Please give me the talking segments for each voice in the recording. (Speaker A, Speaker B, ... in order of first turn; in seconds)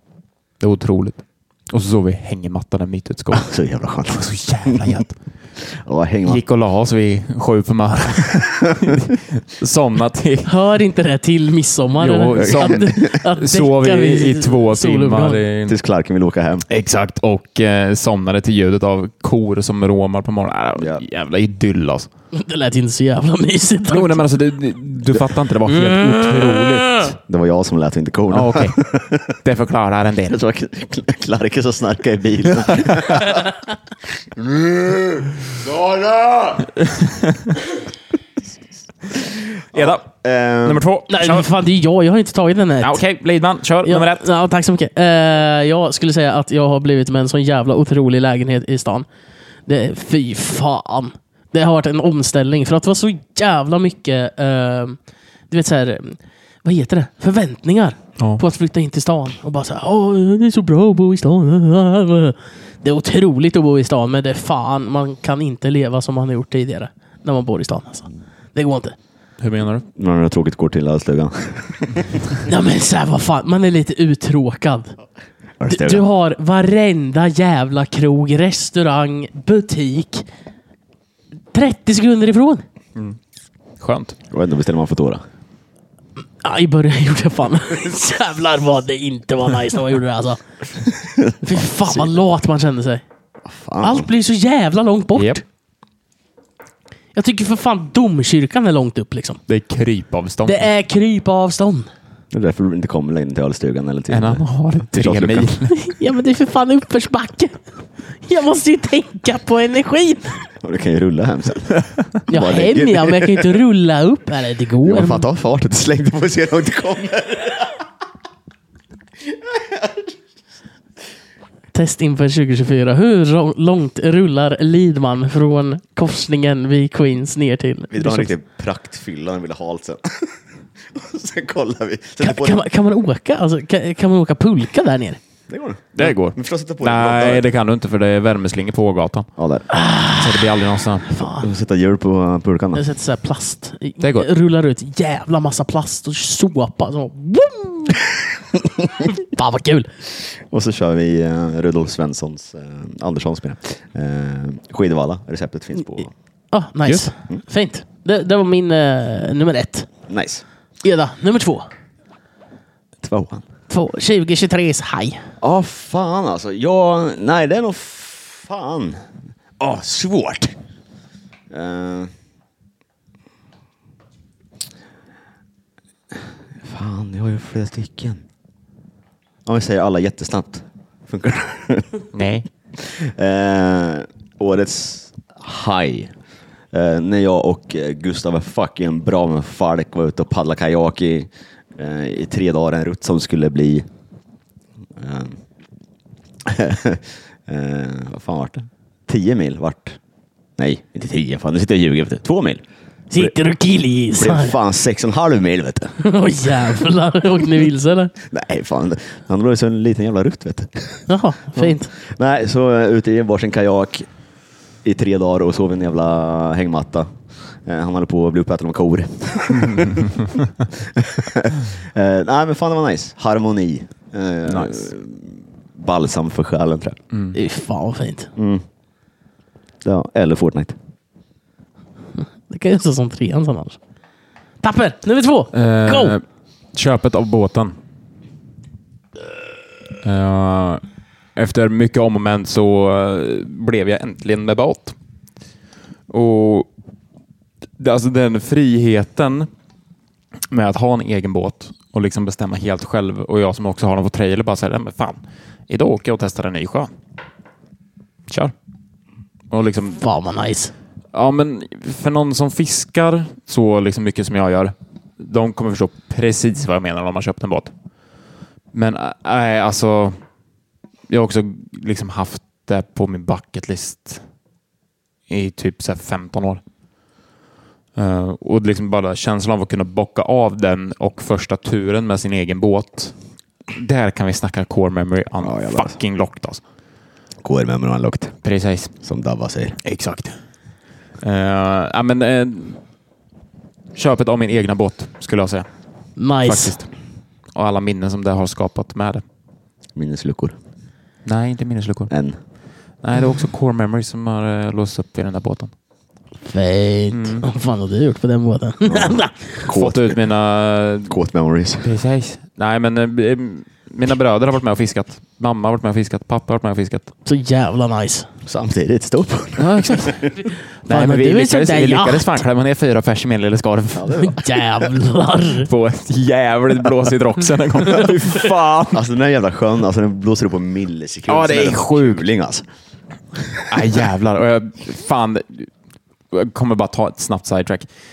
Speaker A: 0.6-3.5, 4.1-5.1, 6.2-10.5, 12.0-15.8, 16.7-22.1, 23.9-27.1, 28.3-28.8, 29.4-30.4, 32.7-33.2, 36.8-37.6, 39.7-40.0, 40.6-41.5, 42.8-44.2, 69.4-69.8, 83.8-84.2, 95.1-95.4, 99.5-100.7, 104.1-105.9, 135.9-139.3, 140.2-141.1, 144.0-144.3, 182.1-182.5, 219.6-220.1, 224.4-224.9, 227.1-227.4, 235.5-236.2, 236.7-237.8, 240.0-240.8, 241.3-244.9, 246.1-246.7, 247.8-249.5, 250.5-256.9, 258.3-258.5, 259.5-260.0, 261.1-267.7, 268.7-270.2, 271.1-274.2, 275.3-276.6, 277.9-283.1, 283.7-286.6, 288.4-288.9, 289.8-290.4, 291.2-292.8, 293.9-295.7, 296.4-296.9, 297.5-299.2, 301.2-302.1, 303.0-305.7, 307.1-307.4, 309.7-311.1, 311.8-317.1, 319.6-320.3, 320.8-324.3, 325.6-329.0, 331.3-332.2, 333.7-335.7, 336.3-337.9
Speaker B: 3.3-5.0, 5.6-6.4, 12.4-13.1, 15.7-16.6, 20.8-21.0, 27.2-29.4, 30.3-33.5, 34.2-36.7, 39.3-40.8, 69.9-72.4, 75.6-76.0, 84.3-85.2, 91.0-92.1, 93.5-94.1, 102.3-105.5, 110.6-113.5, 114.8-117.8, 119.2-120.1, 127.9-130.4, 130.9-132.7, 135.5-137.5, 139.4-139.7, 141.3-142.8, 150.2-156.1, 160.1-160.4, 163.0-163.4, 165.4-169.1, 169.6-170.5, 171.5-172.1, 176.6-178.2, 179.4-181.9, 182.8-186.1, 186.7-193.8, 195.0-195.4, 196.4-200.0, 200.6-202.6, 204.2-206.6, 208.2-211.1, 211.6-214.1, 214.8-217.1, 217.6-227.0, 228.3-228.6, 229.8-230.8, 285.4-286.0, 287.4-288.4, 289.0-289.8, 299.9-300.5, 302.1-302.4, 308.9-310.2, 311.1-311.9, 318.4-320.3, 323.9-324.8, 328.9-332.6
Speaker C: 10.4-15.4, 22.3-24.2, 26.0-26.8, 41.1-43.0, 43.8-49.0, 49.7-55.0, 55.5-69.0, 72.5-75.0, 75.7-80.2, 81.5-82.6, 86.4-90.4, 91.4-93.0, 93.8-95.4, 97.1-99.4, 100.5-101.9, 105.7-107.6, 108.2-110.4, 112.3-115.2, 121.7-128.3, 132.2-135.2, 139.7-141.5, 142.7-149.9, 156.5-159.9, 160.8-161.7, 163.7-165.2, 203.1-204.6, 206.0-208.1, 211.1-211.9, 227.3-228.3, 232.2-233.8, 234.6-236.2, 260.0-260.7, 296.2-296.8, 306.4-309.6, 317.2-318.3, 320.9-322.4, 324.2-325.7